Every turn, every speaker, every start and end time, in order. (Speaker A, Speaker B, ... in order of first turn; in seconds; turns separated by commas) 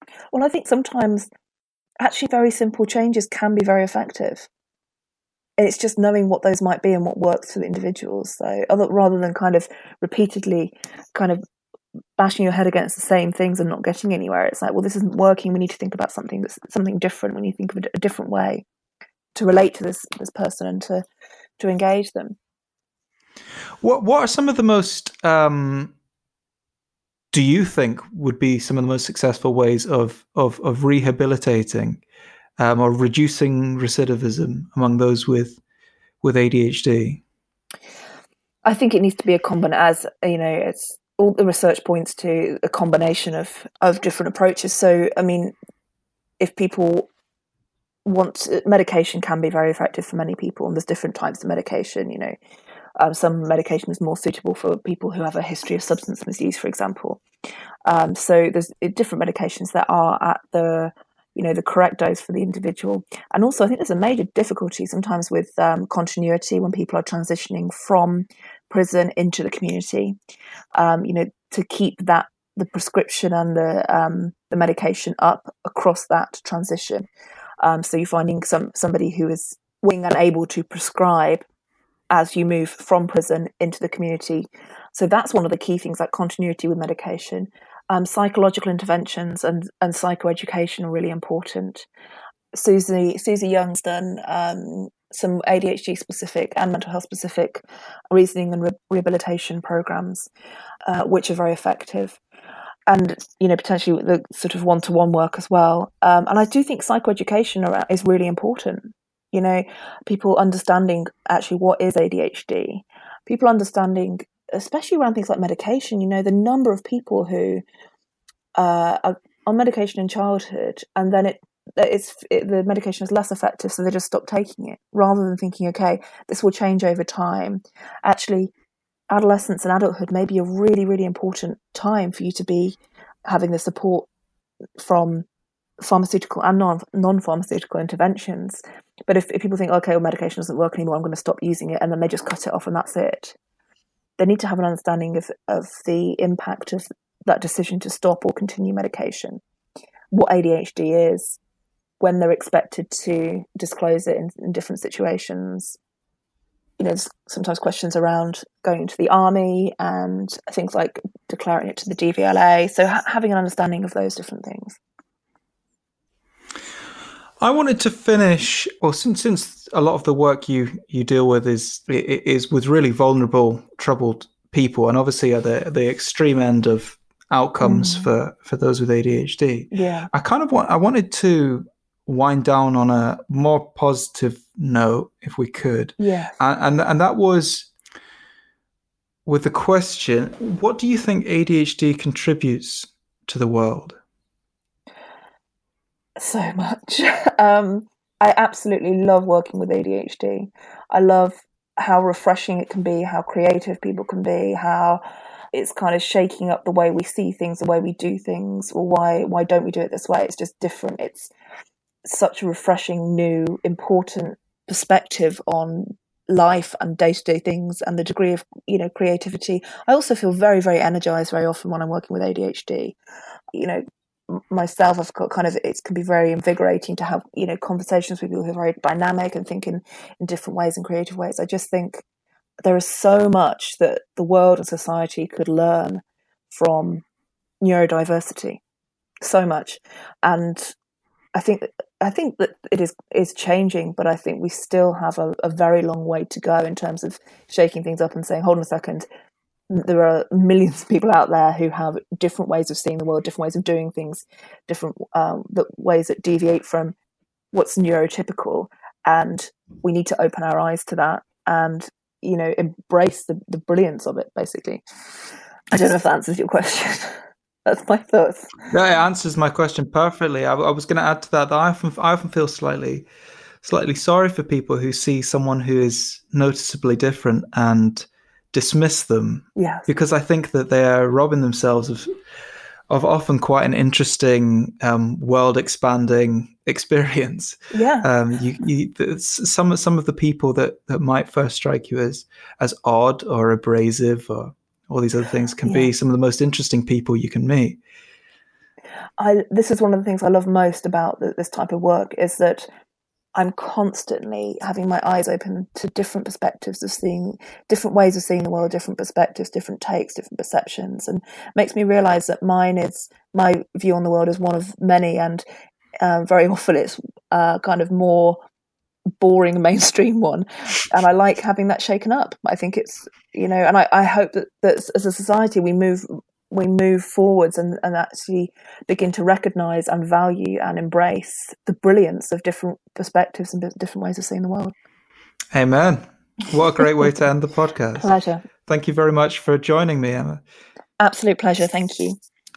Speaker A: 0.3-1.3, Speaker A: 2.0-4.5, Speaker A: 5.6-11.4, Speaker A: 12.2-18.6, Speaker A: 19.3-21.0, Speaker A: 21.6-22.4, Speaker B: 23.8-25.9, Speaker B: 27.3-32.0, Speaker B: 32.6-35.6, Speaker B: 36.2-37.2, Speaker A: 38.6-45.5, Speaker A: 46.4-47.1, Speaker A: 48.0-52.3, Speaker A: 53.0-57.2, Speaker A: 57.8-70.1, Speaker A: 70.7-77.1, Speaker A: 77.6-81.4, Speaker A: 82.1-91.9, Speaker A: 92.5-100.3, Speaker A: 100.8-102.2, Speaker A: 102.9-117.6, Speaker A: 118.5-128.5, Speaker A: 129.1-134.1, Speaker A: 134.8-135.2, Speaker A: 135.8-143.3, Speaker A: 144.2-149.4, Speaker A: 150.1-151.4, Speaker A: 152.0-155.8, Speaker A: 156.8-164.8, Speaker B: 167.4-187.7, Speaker A: 177.6-178.1, Speaker A: 179.7-180.1, Speaker A: 186.0-186.3, Speaker B: 189.2-194.0, Speaker A: 196.2-205.0, Speaker A: 205.5-211.3, Speaker A: 212.0-222.9, Speaker A: 223.5-232.0, Speaker A: 232.6-237.0, Speaker A: 237.6-238.6, Speaker A: 239.2-240.7, Speaker A: 241.3-249.1, Speaker A: 249.7-256.9, Speaker A: 257.5-264.8, Speaker A: 265.7-268.5, Speaker B: 268.7-273.1, Speaker B: 273.6-282.1, Speaker A: 279.6-279.9, Speaker B: 282.9-297.8, Speaker A: 287.7-288.1, Speaker A: 295.6-295.9, Speaker A: 299.2-302.7, Speaker A: 303.3-315.4, Speaker A: 316.0-318.4, Speaker A: 319.2-334.7, Speaker B: 335.5-338.1, Speaker A: 338.0-338.4, Speaker B: 338.6-340.4, Speaker A: 341.0-342.2